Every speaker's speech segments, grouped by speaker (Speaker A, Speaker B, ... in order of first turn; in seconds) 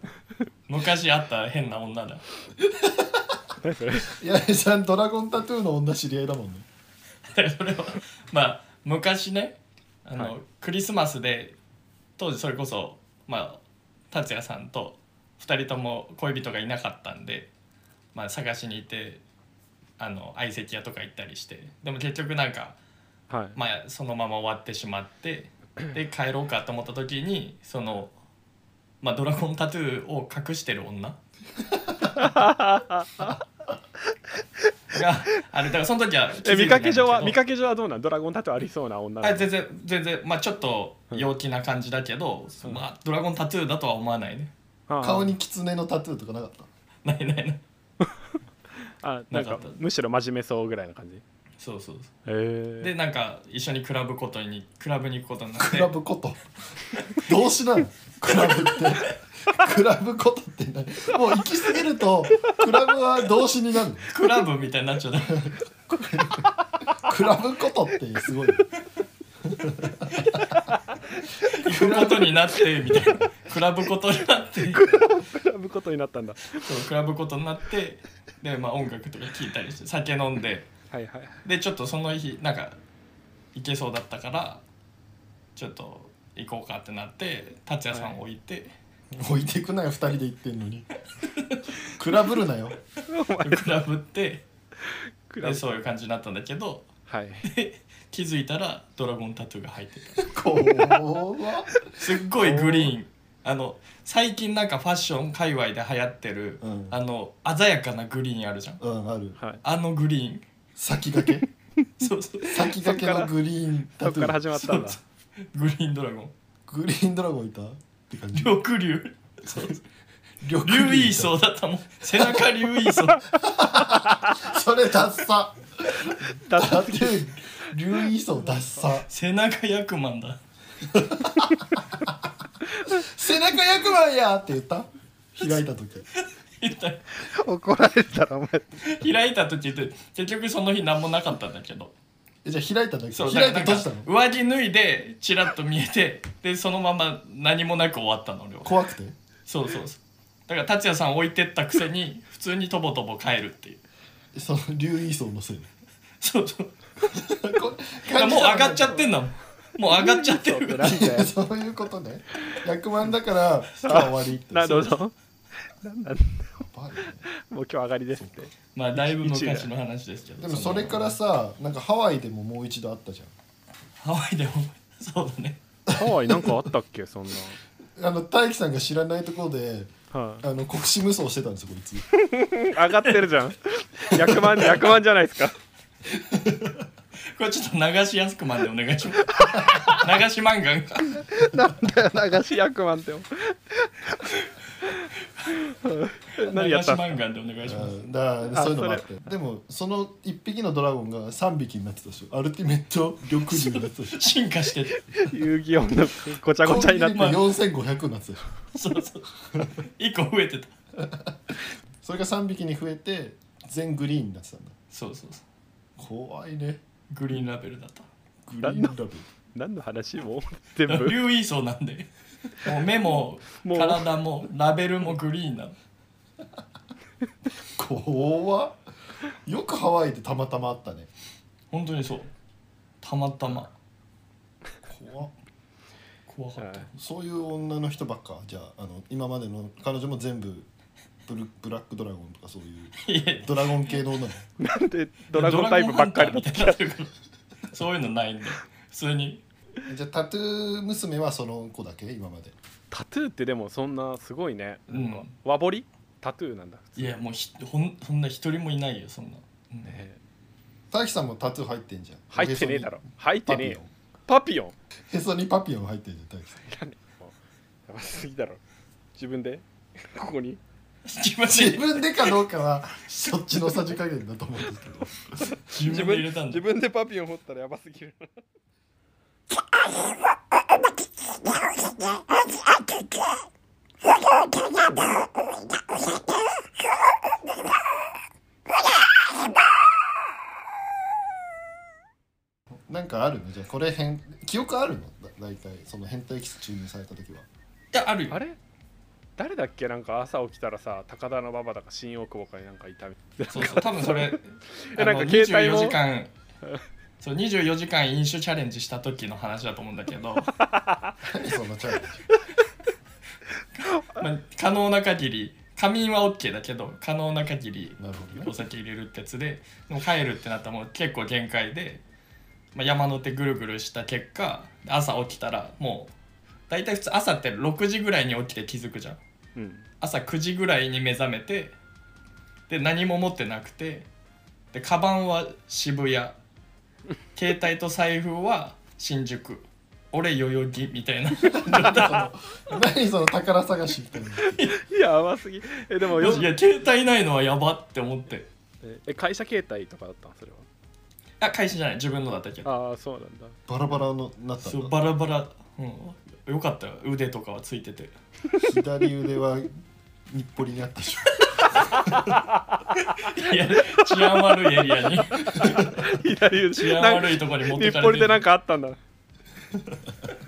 Speaker A: 0.7-2.2, 7.3-11.6, 12.2-13.6, 14.1-17.5, 18.1-19.2, 20.0-22.8, 23.5-28.1, 29.0-31.2, 34.9-37.4, 39.2-44.5, 47.0-47.6, 49.3-49.8, 51.6-52.1, 52.8-55.9, 58.4-59.1, 64.1-65.5, 71.5-75.0, 76.6-80.7, 81.4-82.8, 83.5-84.6, 85.5-88.7, 91.2-91.6, 93.4-94.4, 95.4-96.9, 97.4-100.3, 102.0-108.8, 109.6-110.4, 112.0-112.8, 114.5-115.0, 115.5-116.3, 118.3-119.8, 120.6-123.2, 129.1-130.4, 136.2-137.2, 138.8-141.9, 143.1-148.7, 149.5-153.8, 156.2-157.2, 158.1-161.1, 168.7-171.1, 174.0-175.6, 187.3-191.3, 196.4-198.1, 203.5-205.2, 208.7-210.7, 214.9-215.4, 217.1-218.1, 220.9-225.8, 231.7-232.3, 233.0-233.7, 236.3-236.9, 243.0-244.0, 245.3-247.1, 247.7-249.4, 254.9-255.3, 257.0-260.0, 271.1-272.1, 275.7-276.7, 297.9-298.4, 303.5-306.3, 307.2-310.5, 313.8-322.0, 322.7-326.1, 326.7-329.2, 330.0-331.8, 332.7-334.1, 334.7-336.4, 337.4-342.3, 346.2-348.5, 351.4-352.7, 354.6-358.1, 363.0-368.4
Speaker B: 2.8-3.4, 4.0-6.7, 45.0-46.7, 55.6-56.5, 57.1-64.1, 65.3-68.7, 69.4-70.2, 71.6-72.3, 89.1-90.9, 91.9-92.8, 100.2-101.7, 106.6-107.0, 108.8-109.4, 110.8-111.5, 112.4-114.4, 116.7-118.6, 119.5-119.8, 120.4-121.3, 122.1-122.4, 123.4-129.1, 130.9-131.6, 132.8-136.1, 142.4-144.1, 148.6-149.2, 154.3-155.7, 157.2-159.1, 160.9-164.9, 166.6-167.2, 168.1-168.4, 170.4-173.3, 175.9-176.5, 177.9-182.0, 186.3-186.7, 197.6-204.3, 206.6-208.6, 211.0-211.3, 212.0-214.8, 216.0-216.8, 218.4-219.2, 227.6-228.8, 229.4-231.1, 234.8-235.3, 237.0-240.7, 241.3-244.4, 249.9-252.5, 260.9-263.9, 265.1-266.7, 271.5-275.3, 292.7-297.5, 311.2-312.2, 318.0-318.5, 341.6-344.6, 353.7-354.9, 358.6-359.8, 360.3-362.1
Speaker C: 3.6-4.2, 23.3-23.6, 32.1-33.4, 36.4-39.5, 44.9-45.3, 49.0-51.2, 52.2-52.9, 70.7-70.9, 74.7-76.7, 80.9-81.4, 93.0-93.8, 94.9-95.8, 97.1-97.5, 101.7-102.9, 112.8-113.3, 114.0-115.0, 123.9-124.4, 126.3-127.2, 137.2-138.7, 159.8-161.3, 163.8-169.7, 175.9-177.6, 180.1-180.4, 182.1-185.6, 189.3-190.0, 191.2-195.1, 195.7-197.2, 198.4-199.1, 205.1-207.4, 218.6-219.0, 219.5-221.2, 223.5-224.1, 236.6-236.9, 244.6-246.8, 252.9-257.2, 259.8-260.2, 262.3-264.7, 266.6-267.3, 267.9-268.6, 269.1-270.6, 275.5-278.4, 298.3-298.6, 299.4-306.0, 310.7-311.1, 329.6-329.8, 341.7-342.0, 344.4-346.5, 348.8-350.7, 352.6-353.6, 361.7-362.8, 365.3-369.0